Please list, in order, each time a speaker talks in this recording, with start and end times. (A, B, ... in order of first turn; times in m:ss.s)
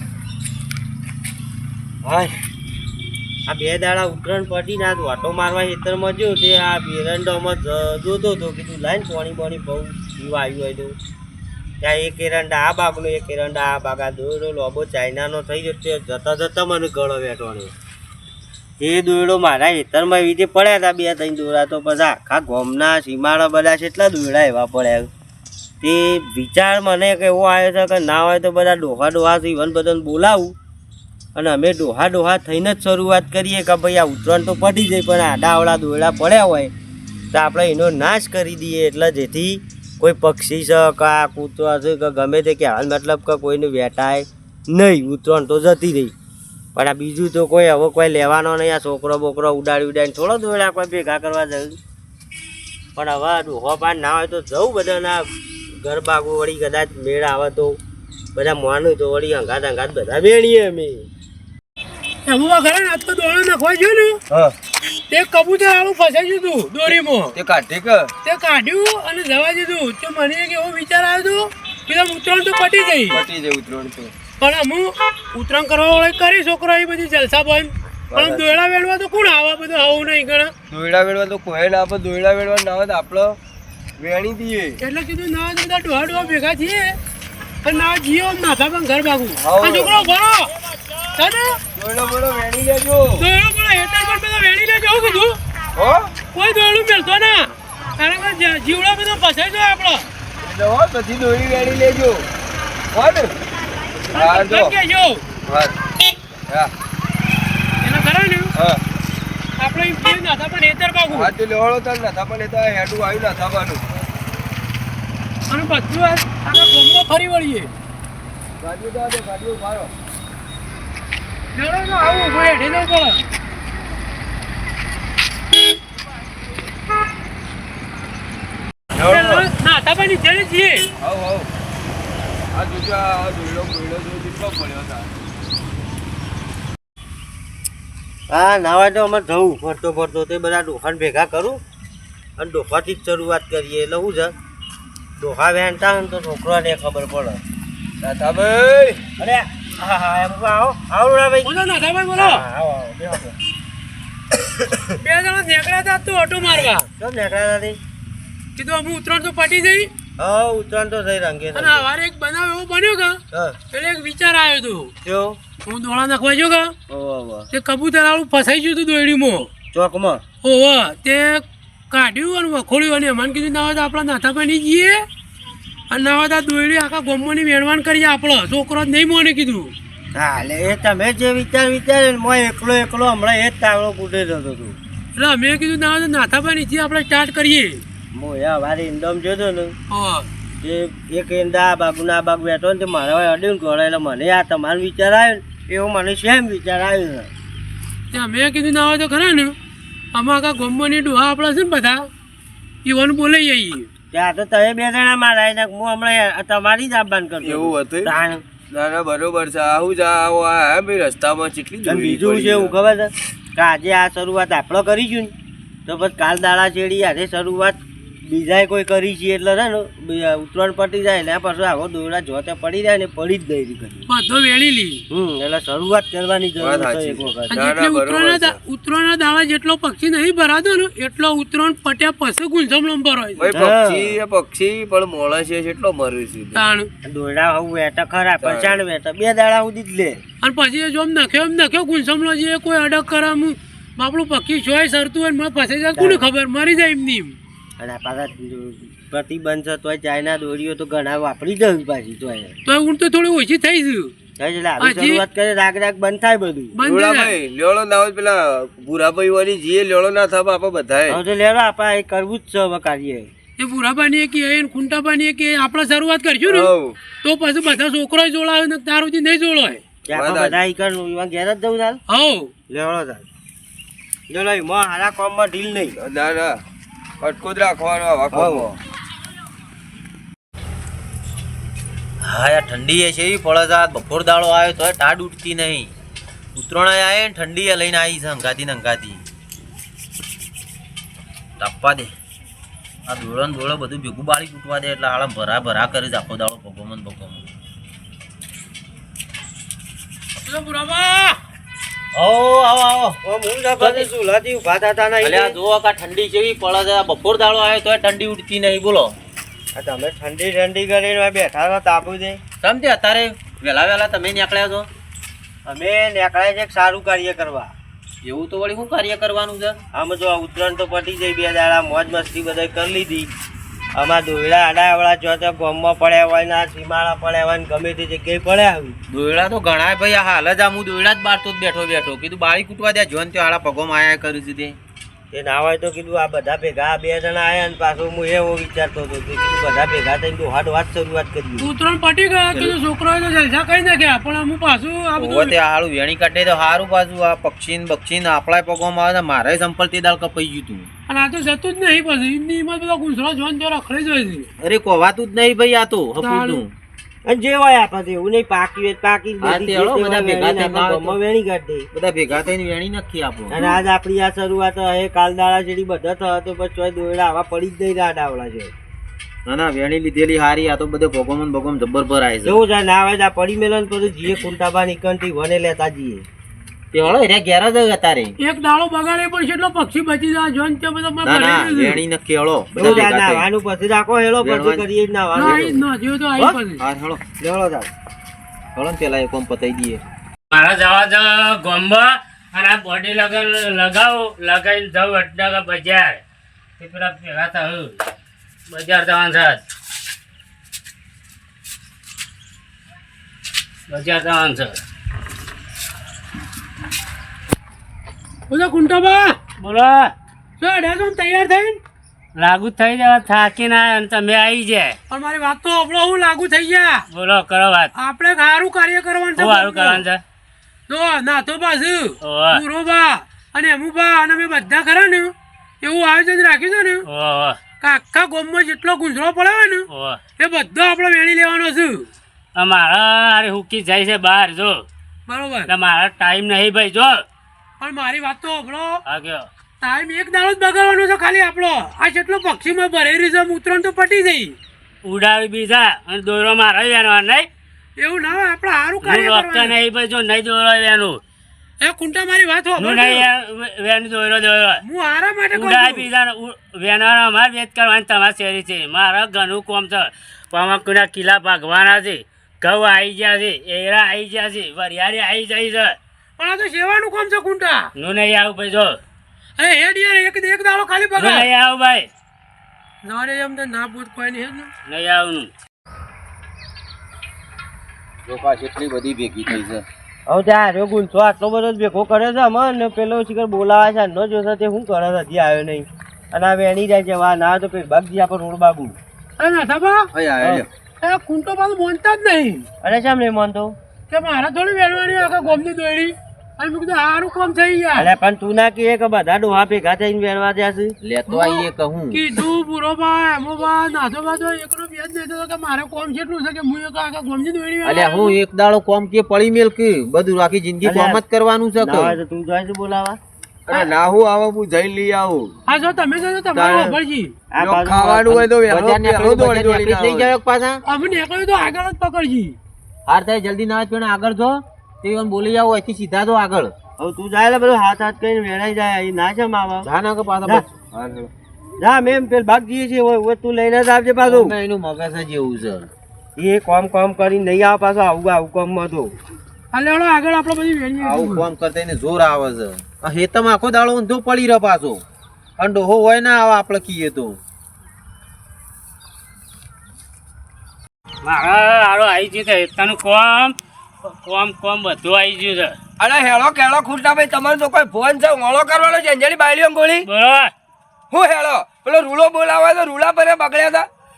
0:03.5-0:11.0 A
0:11.8-0:17.7 A
0:18.8-0:25.1 A
0:25.8-0:30.5 A
0:31.3-0:36.7 A
0:37.3-0:46.1 A
0:46.7-0:51.8 A
0:53.0-0:55.3 A
0:55.8-0:57.8 A
0:58.3-1:01.1 A
1:02.2-1:04.2 B
1:05.1-1:07.4 B
1:07.4-1:08.1 C
1:08.2-1:13.2 B
1:13.1-1:14.1 C
1:14.4-1:20.5 B
1:18.1-1:18.5 C
1:20.7-1:23.4 C
1:24.0-1:24.8 C
1:24.8-1:27.0 B
1:27.6-1:30.5 B
1:29.4-1:30.1 C
1:31.2-1:31.6 B
1:31.8-1:33.2 C
1:33.2-1:35.4 B
1:35.8-1:36.0 C
1:36.3-1:40.1 B
1:40.4-1:42.2 C
1:42.9-1:43.3 C
1:44.1-1:45.2 B
1:44.2-1:44.7 C
1:45.5-1:45.7 C
1:47.8-1:48.5 B
1:49.6-1:51.3 B
1:51.1-1:53.8 C
1:55.5-1:57.7 B
1:58.6-1:59.9 C
2:01.5-2:03.2 B
2:09.0-2:09.4 C
2:09.0-2:10.8 B
2:11.0-2:11.5 C
2:12.5-2:15.1 C
2:18.3-2:21.6 A
2:22.4-2:24.3 A
2:25.2-2:27.4 A
2:28.0-2:29.0 C
2:29.2-2:31.6 A
2:31.4-2:32.4 B
2:32.1-2:33.4 A
2:35.0-2:36.8 B
2:36.6-2:37.8 A
2:38.6-2:39.9 B
2:40.2-2:41.9 A
2:41.5-2:43.2 B
2:43.3-2:43.6 A
2:43.7-2:44.9 B
2:45.0-2:45.4 A
2:45.6-2:46.7 B
2:46.9-2:47.5 A
2:47.5-2:49.5 B
2:49.7-2:50.2 A
2:50.4-2:55.0 B
2:55.9-2:59.7 B
3:00.1-3:04.8 A
3:05.2-3:07.8 B
3:08.1-3:09.7 A
3:09.9-3:10.3 B
3:10.6-3:17.3 A
3:18.1-3:19.5 B
3:20.1-3:22.1 B
3:22.8-3:23.9 B
3:24.1-3:28.4 A
3:27.4-3:28.1 C
3:28.7-3:32.7 C
3:31.8-3:35.3 A
3:35.8-3:44.0 A
3:44.1-3:45.0 B
3:45.1-3:47.7 A
3:46.6-3:48.6 C
3:47.4-3:53.5 B
3:53.4-3:56.6 C
3:53.4-3:54.2 A
3:56.5-3:56.9 B
3:57.0-4:00.2 A
3:58.4-3:58.7 C
4:00.4-4:07.4 B
4:06.0-4:06.3 A
4:07.8-4:12.5 A
4:12.6-4:14.1 B
4:14.4-4:16.8 A
4:14.8-4:15.2 B
4:16.7-4:17.4 B
4:16.8-4:21.2 C
4:21.1-4:23.3 A
4:23.6-4:29.8 B
4:26.5-4:27.0 C
4:30.0-4:32.0 A
4:30.1-4:30.6 C
4:32.1-4:32.5 B
4:32.7-4:33.2 A
4:34.3-4:36.0 A
4:36.0-4:36.6 C
4:37.2-4:38.7 C
4:38.3-4:38.7 A
4:42.2-4:45.9 D
4:46.5-4:49.2 D
4:51.6-4:52.1 D
4:53.1-4:57.4 D
5:00.4-5:01.4 B
5:02.1-5:03.2 D
5:03.2-5:05.6 A
5:03.8-5:04.1 D
5:05.2-5:09.1 D
5:09.7-5:12.4 A
5:12.6-5:14.9 D
5:15.6-5:17.7 A
5:18.2-5:19.8 D
5:19.9-5:23.3 A
5:24.0-5:29.0 A
5:29.1-5:34.8 D
5:35.3-5:41.7 A
5:41.6-5:45.6 B
5:45.2-5:50.9 D
5:51.1-5:54.5 B
5:54.6-5:56.7 D
5:56.2-5:56.6 B
5:57.2-6:01.9 A
5:59.4-6:01.2 D
6:01.9-6:03.6 D
6:03.5-6:08.7 A
6:09.4-6:12.6 D
6:12.4-6:16.2 A
6:16.9-6:18.3 D
6:18.4-6:22.0 B
6:21.2-6:23.5 D
6:22.8-6:25.8 A
6:24.4-6:24.8 D
6:25.4-6:25.7 D
6:25.4-6:26.8 B
6:26.8-6:27.2 D
6:27.4-6:27.9 A
6:28.7-6:30.0 D
6:30.5-6:36.2 E
6:36.8-6:38.0 E
6:38.7-6:39.6 E
6:43.9-6:44.8 E
6:48.5-6:49.4 B
6:49.6-6:50.1 E
6:50.6-6:51.8 B
6:52.4-6:55.0 E
6:55.1-6:57.0 B
6:57.1-6:57.9 E
6:57.9-7:00.0 B
6:59.4-7:00.2 E
7:00.9-7:07.0 B
7:02.2-7:02.6 E
7:07.0-7:07.6 E
7:07.8-7:09.9 B
7:09.9-7:10.2 E
7:10.4-7:12.1 B
7:12.6-7:14.8 E
7:15.3-7:15.7 B
7:15.7-7:17.2 E
7:17.8-7:19.0 B
7:19.0-7:19.5 E
7:19.8-7:24.6 B
7:25.0-7:27.5 E
7:28.0-7:29.8 B
7:29.0-7:31.2 E
7:31.8-7:33.3 B
7:32.8-7:34.8 E
7:34.8-7:36.1 B
7:35.5-7:46.0 E
7:46.4-7:47.9 B
7:48.0-7:49.0 E
7:49.6-7:51.5 B
7:51.2-7:52.1 E
7:53.0-7:54.7 B
7:54.8-7:55.5 E
7:58.3-7:59.8 D
8:00.3-8:09.0 A
8:09.4-8:10.1 B
8:10.1-8:10.6 D
8:11.0-8:12.7 B
8:12.8-8:13.7 A
8:14.1-8:18.1 B
8:18.0-8:21.0 A
8:21.0-8:22.3 D
8:21.3-8:28.4 B
8:27.8-8:32.2 D
8:30.8-8:31.2 A
8:31.8-8:33.2 A
8:33.7-8:35.5 C
8:35.7-8:37.3 B
8:36.5-8:37.0 D
8:37.5-8:38.5 A
8:37.6-8:40.3 C
8:38.6-8:40.8 D
8:40.9-8:42.6 B
8:43.1-8:46.7 D
8:47.0-8:49.9 A
8:49.8-8:50.7 D
8:51.8-8:54.5 A
8:54.2-8:55.9 D
8:56.4-8:59.1 A
8:59.7-9:01.5 B
9:01.0-9:05.0 D
9:05.6-9:07.4 D
9:11.2-9:13.5 E
9:14.1-9:15.7 E
9:16.0-9:20.0 C
9:20.0-9:20.5 E
9:21.1-9:23.9 C